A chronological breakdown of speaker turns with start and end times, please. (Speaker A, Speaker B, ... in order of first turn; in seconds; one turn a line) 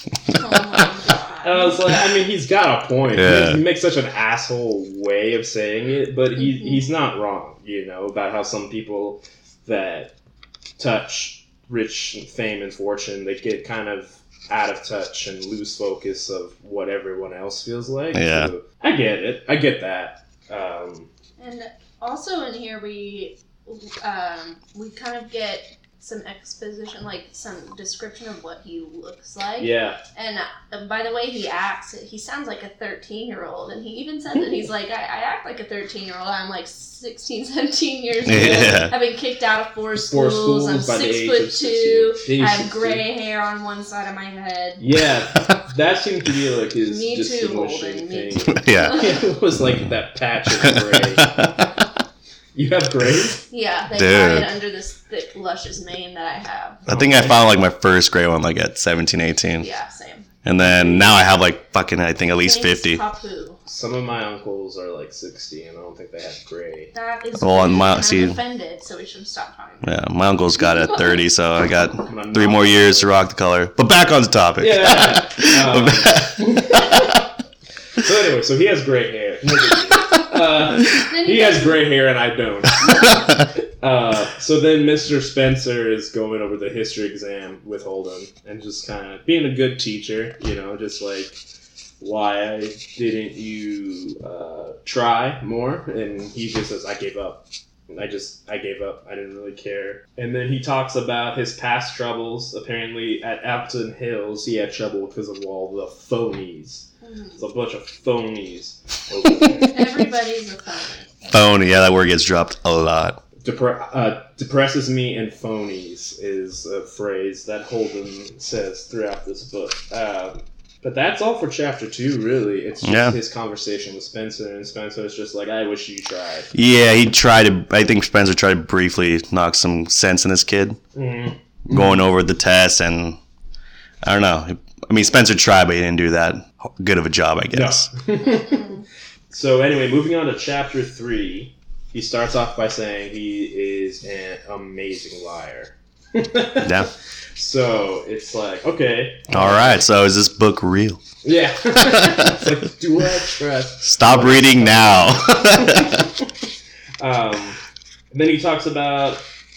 Speaker A: 0.3-1.7
Speaker B: 1.4-10.1
Speaker C: 3.1-3.6
Speaker A: 6.4-6.8
Speaker B: 10.8-21.1
Speaker C: 18.1-18.5
Speaker A: 21.4-44.8
Speaker B: 29.6-30.0
Speaker C: 38.2-38.9
Speaker B: 38.3-38.9
Speaker B: 40.1-43.0
Speaker B: 44.8-51.4
Speaker A: 46.8-49.1
Speaker C: 48.5-49.2
Speaker C: 50.5-51.7
Speaker B: 52.5-53.4
Speaker A: 53.5-56.9
Speaker C: 54.0-54.5
Speaker B: 56.9-57.4
Speaker C: 56.9-59.7
Speaker A: 59.6-60.3
Speaker C: 60.4-63.0
Speaker B: 60.6-61.2
Speaker A: 62.4-63.6
Speaker B: 63.7-66.9
Speaker A: 66.9-70.0
Speaker C: 67.4-68.4
Speaker C: 69.8-77.2
Speaker A: 70.6-71.2
Speaker B: 72.0-73.2
Speaker B: 74.6-77.2
Speaker B: 78.0-91.4
Speaker A: 80.9-81.9
Speaker C: 82.8-83.1
Speaker B: 92.0-106.9
Speaker A: 107.0-107.4
Speaker B: 107.4-110.0
Speaker A: 109.5-111.3
Speaker C: 111.3-113.2
Speaker B: 113.4-126.5
Speaker C: 122.8-123.2
Speaker C: 126.5-130.8
Speaker B: 130.9-132.0
Speaker C: 131.7-133.2
Speaker C: 134.0-137.9
Speaker B: 137.5-138.7
Speaker A: 138.2-138.8
Speaker B: 139.3-149.8
Speaker C: 146.6-146.9
Speaker C: 149.3-151.0
Speaker B: 151.2-156.1
Speaker C: 151.8-152.4
Speaker C: 153.8-156.0
Speaker B: 157.0-157.6
Speaker B: 158.1-159.2